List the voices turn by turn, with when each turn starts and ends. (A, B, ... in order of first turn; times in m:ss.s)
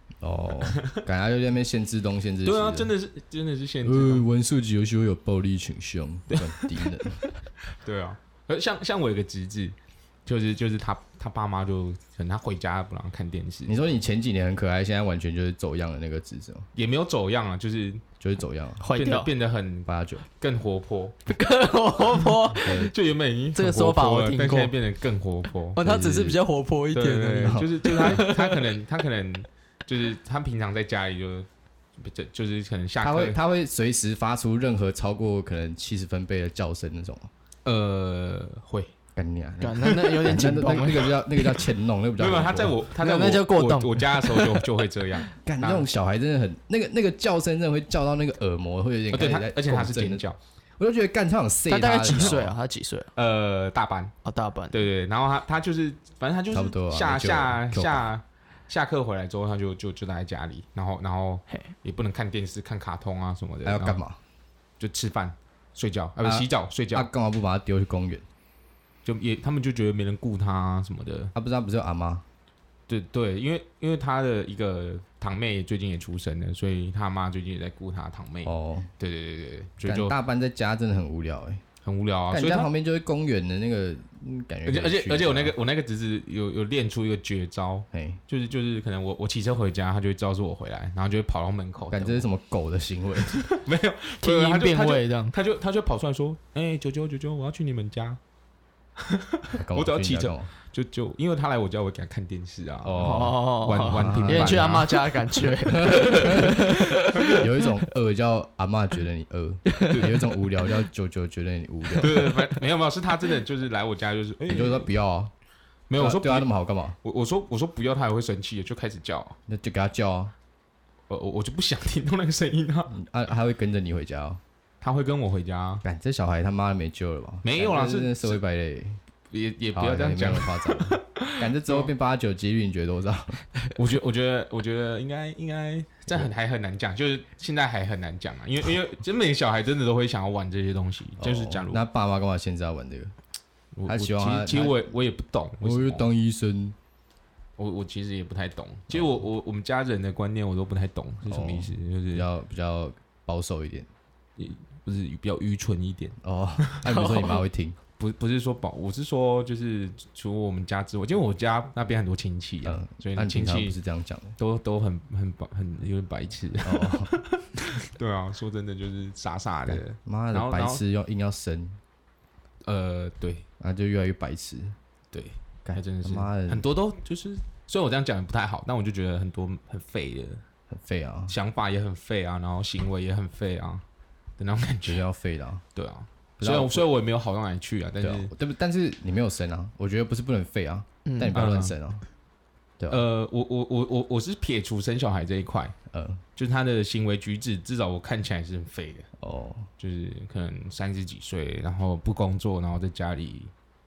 0:00.2-0:02.9 A
0:00.6-0:01.0 B
0:02.4-0:04.3 B
0:03.8-0:07.2 A
0:06.3-0:06.9 B
0:07.7-0:09.7 B
0:10.2-0:13.8 B
0:13.6-0:16.7 A
0:16.7-0:18.0 B
0:18.2-0:18.8 A
0:18.8-0:19.3 C
0:18.9-0:21.2 B
0:19.9-0:20.2 A
0:21.3-0:22.8 C
0:22.6-0:22.9 A
0:22.6-0:25.8 B
0:23.5-0:24.7 C
0:25.8-0:28.6 C
0:25.8-0:26.4 A
0:26.9-0:33.4 B
0:27.4-0:28.2 A
0:33.0-0:37.3 A
0:37.6-0:38.9 B
0:39.1-0:42.8 A
0:39.6-0:41.1 C
0:39.8-0:40.3 B
0:42.2-0:45.9 B
0:43.0-0:44.7 C
0:45.4-0:50.2 A
0:49.1-0:50.4 B
0:50.8-0:52.5 A
0:51.7-0:53.1 C
0:52.1-0:52.4 B
0:53.2-0:54.1 B
0:54.2-0:54.9 C
0:54.7-1:04.0 B
0:56.5-0:58.1 A
1:03.6-1:04.2 A
1:04.8-1:07.1 B
1:06.2-1:08.2 A
1:09.0-1:11.3 B
1:11.3-1:12.2 A
1:12.9-1:20.1 B
1:18.4-1:18.9 A
1:19.8-1:21.6 A
1:21.8-1:22.7 B
1:22.3-1:25.5 A
1:24.6-1:32.2 B
1:27.9-1:28.2 A
1:31.9-1:33.4 A
1:33.3-1:38.2 B
1:34.2-1:35.3 C
1:39.0-1:45.5 B
1:39.5-1:40.5 A
1:42.8-1:44.8 A
1:43.0-1:47.4 C
1:45.6-1:52.3 A
1:46.1-1:46.5 B
1:47.2-1:47.5 B
1:49.9-1:50.3 B
1:52.0-1:54.9 B
1:54.4-1:55.3 A
1:55.9-1:56.5 B
1:56.0-1:57.0 A
1:57.0-1:59.4 B
1:59.5-2:00.3 A
2:01.1-2:02.9 B
2:02.9-2:04.4 A
2:04.8-2:05.8 B
2:05.8-2:09.0 A
2:07.4-2:08.4 B
2:09.3-2:11.9 B
2:09.7-2:13.4 A
2:13.8-2:21.8 B
2:21.2-2:23.1 A
2:23.7-2:26.0 B
2:23.9-2:24.9 A
2:25.6-2:26.8 A
2:27.6-2:32.3 B
2:31.3-2:33.9 A
2:34.4-2:37.0 B
2:36.2-2:37.8 A
2:38.0-2:43.7 B
2:42.6-2:44.4 A
2:44.4-2:50.8 B
2:46.6-2:47.1 A
2:49.7-2:51.8 A
2:52.6-2:53.4 B
2:53.6-2:54.8 A
2:55.1-3:00.4 B
2:55.6-2:56.6 A
3:00.7-3:01.3 A
3:01.3-3:03.8 B
3:04.4-3:05.0 B
3:04.8-3:05.6 A
3:05.7-3:08.3 B
3:06.4-3:06.9 A
3:08.0-3:12.0 A
3:11.0-3:11.4 C
3:11.3-3:11.7 B
3:12.8-3:13.0 A
3:12.9-3:15.7 B
3:15.9-3:16.2 A
3:16.4-3:19.1 B
3:19.2-3:19.7 A
3:19.8-3:23.5 B